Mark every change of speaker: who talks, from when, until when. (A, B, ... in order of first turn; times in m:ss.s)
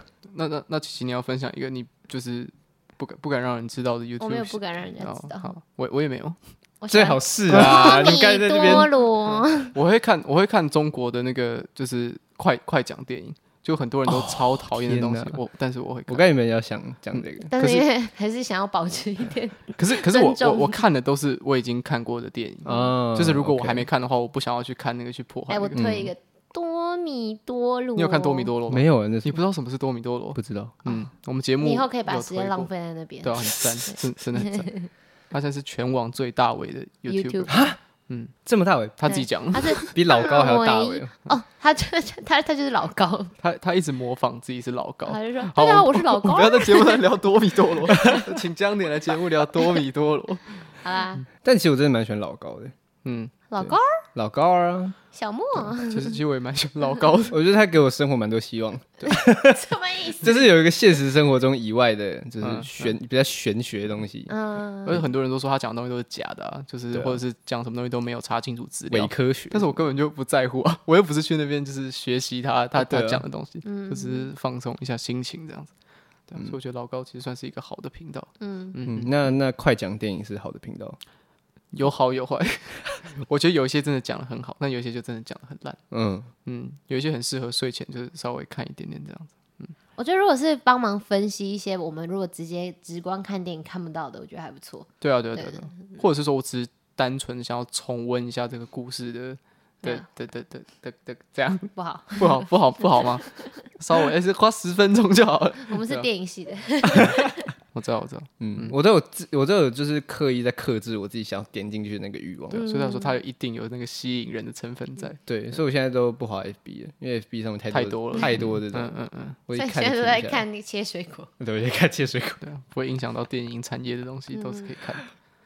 0:00.3-0:06.4 A
0:04.2-0:05.5 B
0:06.8-0:09.7 B
0:06.9-0:08.9 C
0:07.6-0:08.0 A
0:08.7-0:16.2 A
0:14.1-0:15.4 C
0:16.1-0:17.5 C
0:17.1-0:17.8 A
0:17.5-0:20.8 B
0:19.8-0:25.8 A
0:22.6-0:23.9 C
0:22.6-0:22.9 B
0:25.5-0:28.5 B
0:25.8-0:26.1 C
0:28.0-0:32.7 A
0:28.7-0:29.4 C
0:30.4-0:30.8 C
0:31.6-0:34.9 B
0:33.2-0:34.7 A
0:35.3-0:38.3 A
0:37.1-0:37.6 B
0:37.5-0:37.8 C
0:38.4-0:39.2 C
0:39.0-0:39.9 A
0:39.1-0:43.3 B
0:39.8-0:41.1 C
0:43.4-0:50.8 A
0:45.1-0:47.0 B
0:50.8-0:51.2 B
0:51.4-0:52.7 C
0:53.0-0:53.3 A
0:53.5-0:54.0 B
0:53.6-0:55.0 C
0:55.1-0:56.2 B
0:55.8-0:57.4 A
0:57.3-0:59.6 C
0:59.5-1:00.5 B
1:00.2-1:04.3 C
1:02.4-1:02.9 A
1:04.3-1:05.0 B
1:04.9-1:15.7 A
1:06.9-1:07.2 C
1:08.9-1:09.9 C
1:12.7-1:13.2 C
1:13.6-1:14.3 B
1:16.3-1:19.3 A
1:18.4-1:18.8 B
1:18.8-1:21.0 C
1:21.7-1:25.8 A
1:25.9-1:26.3 C
1:26.4-1:29.8 A
1:30.0-1:35.7 B
1:35.0-1:46.1 A
1:41.7-1:42.4 B
1:45.7-1:47.4 B
1:47.7-1:48.7 A
1:48.4-1:52.6 C
1:52.5-1:53.2 B
1:52.5-1:55.2 A
1:55.3-1:58.9 C
1:57.7-1:59.4 A
1:59.5-2:00.4 C
1:59.5-2:01.3 B
2:01.4-2:02.4 C
2:02.4-2:05.1 A
2:04.3-2:04.7 B